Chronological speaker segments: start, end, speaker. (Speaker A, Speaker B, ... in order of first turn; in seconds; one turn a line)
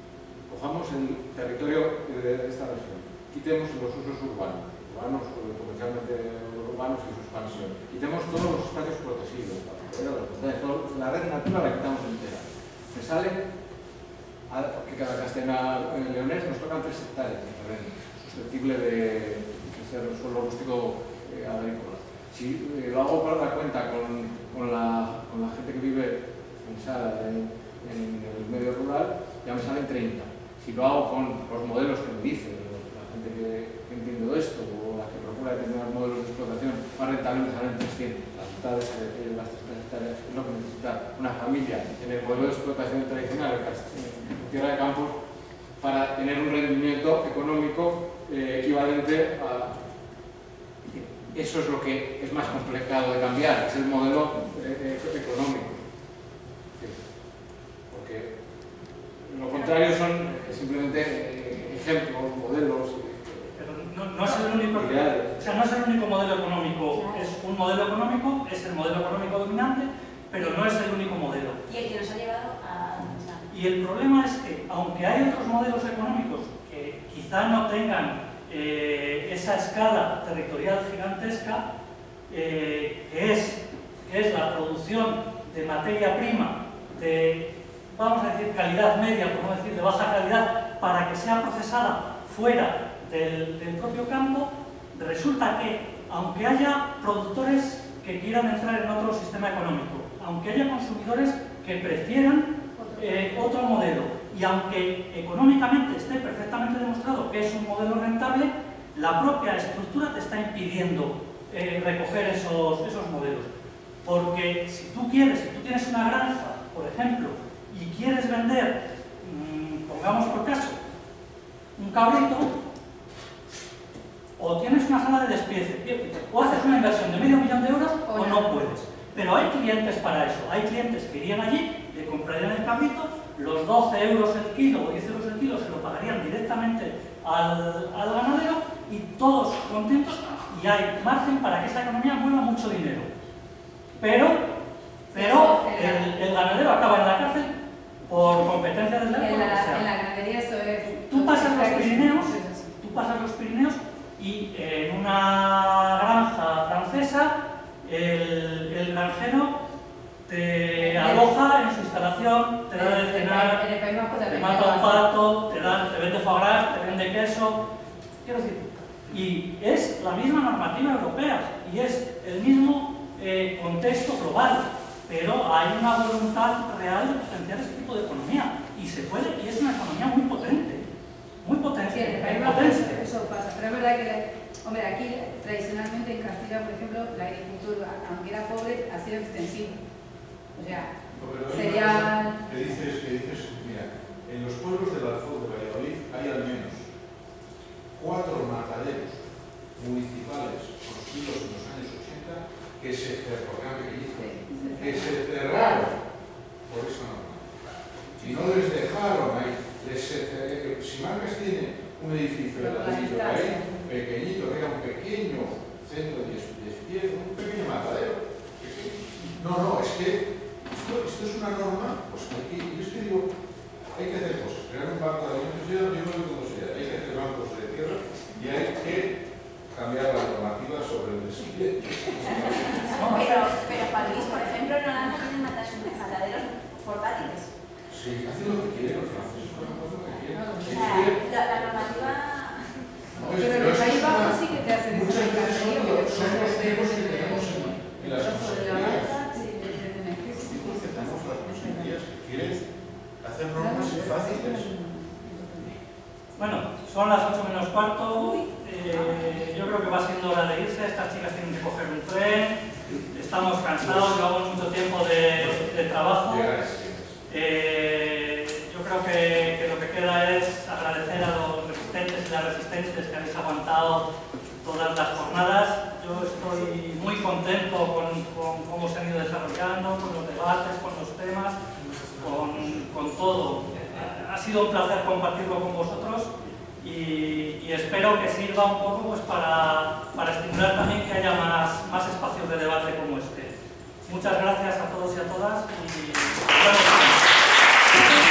Speaker A: 0.5-13.4
Speaker A: 14.5-45.2
Speaker A: 45.8-49.8
Speaker A: 51.3-55.8
Speaker A: 57.9-58.3
Speaker A: 59.3-63.6
Speaker B: 63.6-71.6
Speaker A: 64.7-65.3
Speaker C: 67.0-67.3
Speaker C: 71.7-73.5
Speaker B: 73.5-81.6
Speaker B: 82.3-113.5
Speaker D: 102.8-103.5
Speaker B: 114.0-120.8
Speaker B: 121.8-122.5
Speaker B: 124.4-143.1
Speaker D: 128.1-128.6
Speaker B: 144.0-144.5
Speaker D: 145.1-146.1
Speaker B: 145.1-147.6
Speaker B: 148.1-149.8
Speaker D: 149.2-152.7
Speaker B: 151.1-159.6
Speaker B: 160.3-163.7
Speaker D: 160.8-161.2
Speaker D: 162.8-165.0
Speaker B: 164.3-167.6
Speaker B: 168.2-180.9
Speaker B: 181.4-183.0
Speaker D: 181.9-189.8
Speaker D: 190.6-190.9
Speaker E: 191.1-196.9
Speaker D: 191.5-192.8
Speaker E: 197.9-206.0
Speaker D: 204.3-205.1
Speaker E: 206.7-207.5
Speaker E: 208.2-223.3
Speaker D: 212.6-213.9
Speaker E: 223.9-229.2
Speaker E: 229.7-232.8
Speaker C: 232.2-237.6
Speaker B: 232.9-233.4
Speaker E: 237.9-241.2
Speaker D: 240.3-241.0
Speaker C: 240.7-242.8
Speaker E: 243.1-249.3
Speaker D: 243.3-252.0
Speaker E: 250.3-254.7
Speaker D: 253.6-255.8
Speaker B: 256.4-266.6
Speaker E: 265.3-267.2
Speaker B: 267.3-274.1
Speaker B: 274.6-281.6
Speaker B: 282.2-293.5
Speaker B: 294.1-297.3